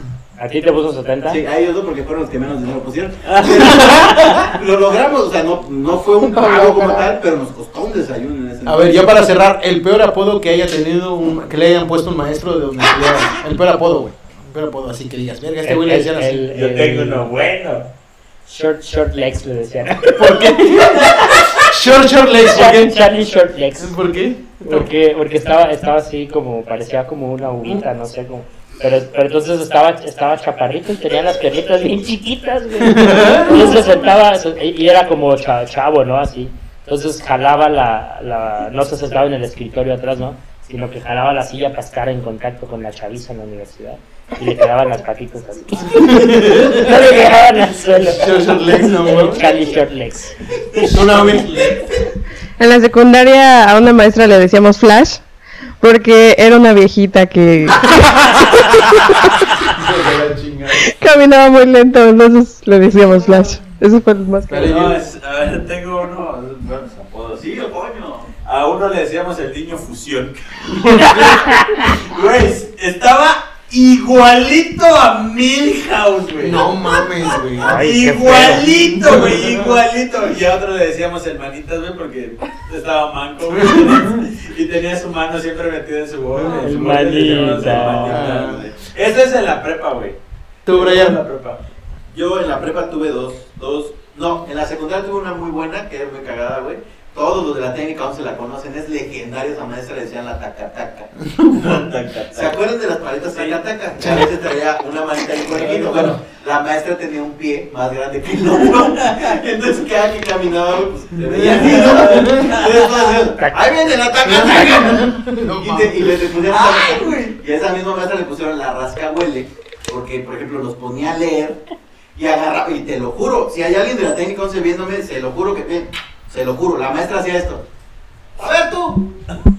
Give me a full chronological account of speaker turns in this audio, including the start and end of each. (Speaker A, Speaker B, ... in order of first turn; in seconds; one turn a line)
Speaker A: 0.4-1.4
Speaker B: 1.3-9.2
Speaker C: 3.3-4.4
Speaker D: 3.8-4.1
Speaker E: 6.2-7.1
Speaker D: 8.6-16.5
Speaker A: 15.7-17.3
Speaker C: 16.5-17.9
Speaker A: 18.4-20.2
Speaker D: 20.1-23.0
Speaker C: 21.1-21.4
Speaker A: 22.4-24.0
Speaker D: 23.8-24.9
Speaker A: 24.6-50.3
Speaker D: 32.8-33.8
Speaker D: 45.9-47.1
Speaker D: 48.0-49.5
Speaker C: 50.7-51.8
Speaker D: 50.9-51.6
Speaker E: 52.6-55.2
Speaker E: 55.8-57.9
Speaker D: 58.0-58.5
Speaker E: 58.7-59.2
Speaker D: 59.7-60.9
Speaker E: 60.8-64.9
Speaker D: 64.5-65.0
Speaker C: 64.6-67.5
Speaker B: 67.3-68.3
Speaker C: 68.4-76.8
Speaker D: 70.8-71.4
Speaker D: 76.4-79.8
Speaker C: 77.4-90.2
Speaker A: 77.6-78.6
Speaker D: 83.5-84.3
Speaker D: 86.3-86.8
Speaker A: 86.4-88.3
Speaker D: 87.7-88.7
Speaker D: 90.7-91.2
Speaker C: 90.7-91.6
Speaker B: 92.1-101.1
Speaker D: 101.2-101.8
Speaker C: 101.5-102.6
Speaker B: 102.3-121.6
Speaker C: 103.3-103.6
Speaker D: 104.0-104.3
Speaker C: 105.5-106.0
Speaker D: 105.8-106.1
Speaker D: 111.2-112.5
Speaker C: 111.4-112.9
Speaker D: 114.2-116.3
Speaker C: 116.5-117.3
Speaker B: 122.2-127.6
Speaker B: 128.4-129.2